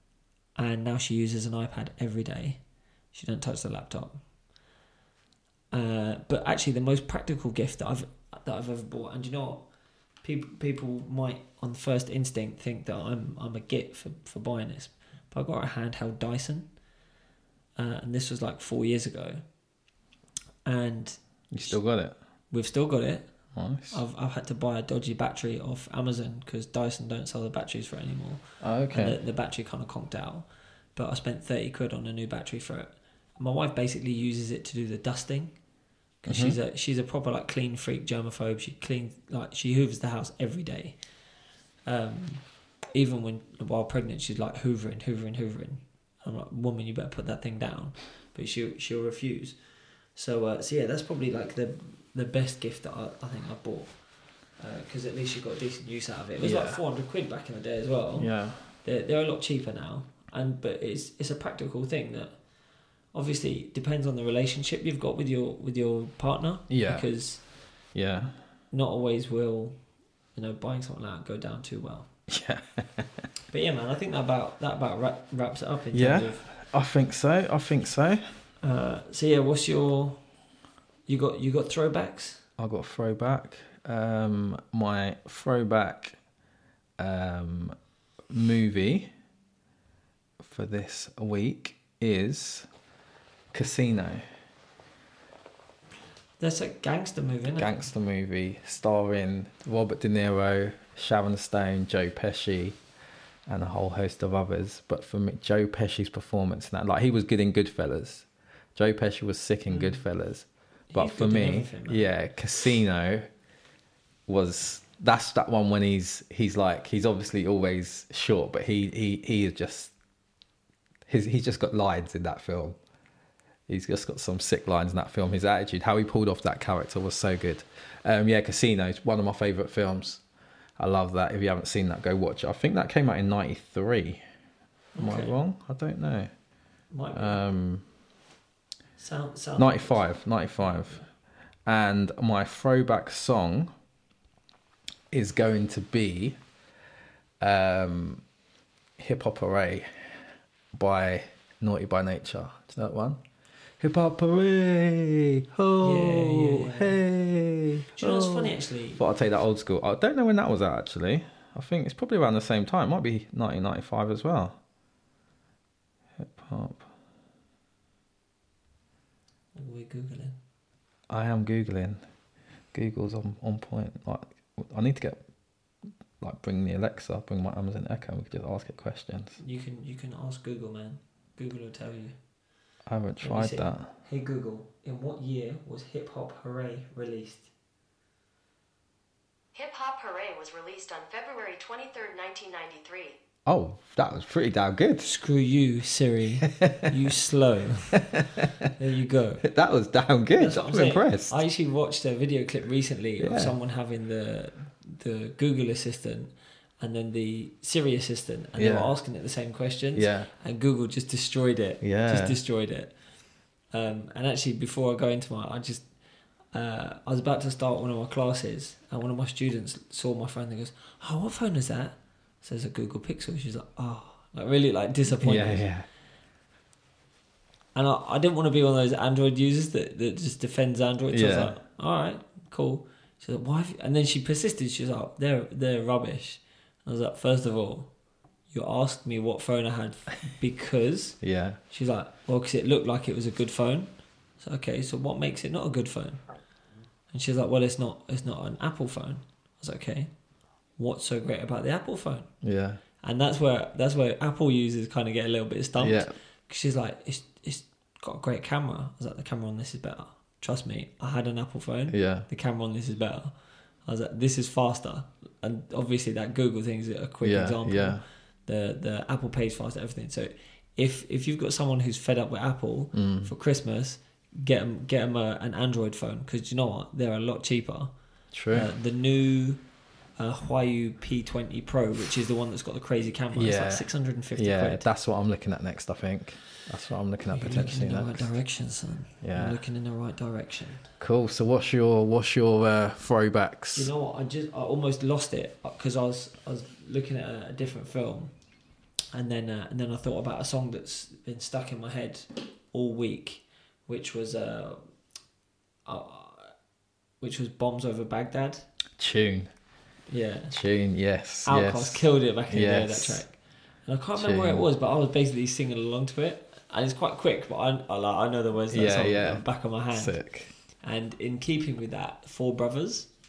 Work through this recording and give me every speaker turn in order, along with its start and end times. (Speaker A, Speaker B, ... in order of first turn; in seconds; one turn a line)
Speaker A: 0.6-2.6
Speaker A: 3.1-4.2
Speaker A: 5.7-9.7
Speaker A: 10.2-16.7
Speaker A: 17.8-19.4
Speaker A: 20.6-21.7
Speaker B: 21.5-22.1
Speaker A: 22.5-23.3
Speaker B: 23.5-24.0
Speaker A: 23.9-35.5
Speaker B: 28.6-29.2
Speaker A: 36.2-41.0
Speaker B: 36.3-36.6
Speaker A: 41.9-49.5
Speaker A: 50.1-53.9
Speaker A: 54.6-58.3
Speaker B: 56.4-56.8
Speaker B: 58.2-58.7
Speaker A: 58.8-62.3
Speaker A: 63.1-67.4
Speaker B: 66.7-67.1
Speaker B: 67.9-68.3
Speaker A: 68.7-69.7
Speaker A: 70.3-72.1
Speaker B: 72.3-73.2
Speaker A: 73.5-76.5
Speaker B: 75.9-78.2
Speaker A: 78.6-80.2
Speaker A: 81.1-82.4
Speaker B: 82.6-86.2
Speaker B: 87.0-87.7
Speaker B: 88.3-89.1
Speaker B: 90.4-92.7
Speaker B: 93.5-94.2
Speaker A: 96.4-97.8
Speaker B: 97.5-102.8
Speaker B: 103.5-113.3
Speaker A: 109.7-110.0
Speaker A: 110.9-112.1
Speaker B: 114.3-119.9
Speaker B: 121.1-122.8
Speaker B: 123.7-130.2
Speaker B: 130.8-134.2
Speaker A: 134.9-135.3
Speaker B: 135.0-136.3
Speaker A: 136.9-137.4
Speaker B: 137.1-137.8
Speaker A: 139.0-140.1
Speaker B: 139.6-141.0
Speaker A: 140.6-141.0
Speaker B: 141.7-143.7
Speaker B: 145.1-146.4
Speaker B: 147.4-148.2
Speaker B: 149.0-149.9
Speaker B: 150.7-153.2
Speaker B: 153.8-164.6
Speaker A: 155.8-157.0
Speaker A: 157.9-159.0
Speaker B: 166.2-166.9
Speaker A: 169.6-170.3
Speaker B: 171.1-172.0
Speaker B: 172.7-175.2
Speaker B: 176.2-179.4
Speaker A: 179.4-182.2
Speaker B: 182.9-183.9
Speaker A: 183.2-187.5
Speaker C: 189.5-193.2
Speaker B: 193.4-195.1
Speaker A: 195.0-198.1
Speaker B: 196.5-196.9
Speaker B: 198.0-198.4
Speaker A: 198.7-199.4
Speaker B: 199.4-201.4
Speaker A: 200.3-212.9
Speaker B: 203.2-203.5
Speaker B: 208.6-208.9
Speaker B: 209.9-210.3
Speaker B: 211.8-212.3
Speaker A: 213.7-215.8
Speaker A: 216.5-225.7
Speaker B: 225.1-225.8
Speaker A: 227.7-237.9
Speaker B: 231.1-231.5
Speaker A: 238.5-246.2
Speaker B: 241.2-241.6
Speaker A: 247.1-250.1
Speaker A: 250.8-252.3
Speaker B: 252.4-252.8
Speaker A: 253.0-263.3
Speaker B: 255.8-256.1
Speaker B: 261.9-262.3
Speaker A: 263.9-277.9
Speaker B: 267.2-268.0
Speaker B: 272.9-273.3
Speaker B: 278.3-278.7
Speaker A: 278.5-279.6
Speaker A: 280.2-284.9
Speaker B: 283.3-283.8
Speaker B: 284.4-288.2
Speaker A: 287.3-290.9
Speaker B: 289.2-289.6
Speaker B: 291.0-293.9
Speaker A: 293.7-298.3
Speaker A: 299.1-304.8
Speaker A: 305.9-306.5
Speaker A: 307.2-308.7
Speaker B: 309.0-309.5
Speaker A: 310.1-310.5
Speaker B: 310.5-313.2
Speaker A: 311.4-320.2
Speaker B: 314.2-314.6
Speaker B: 318.7-320.5
Speaker A: 320.8-323.1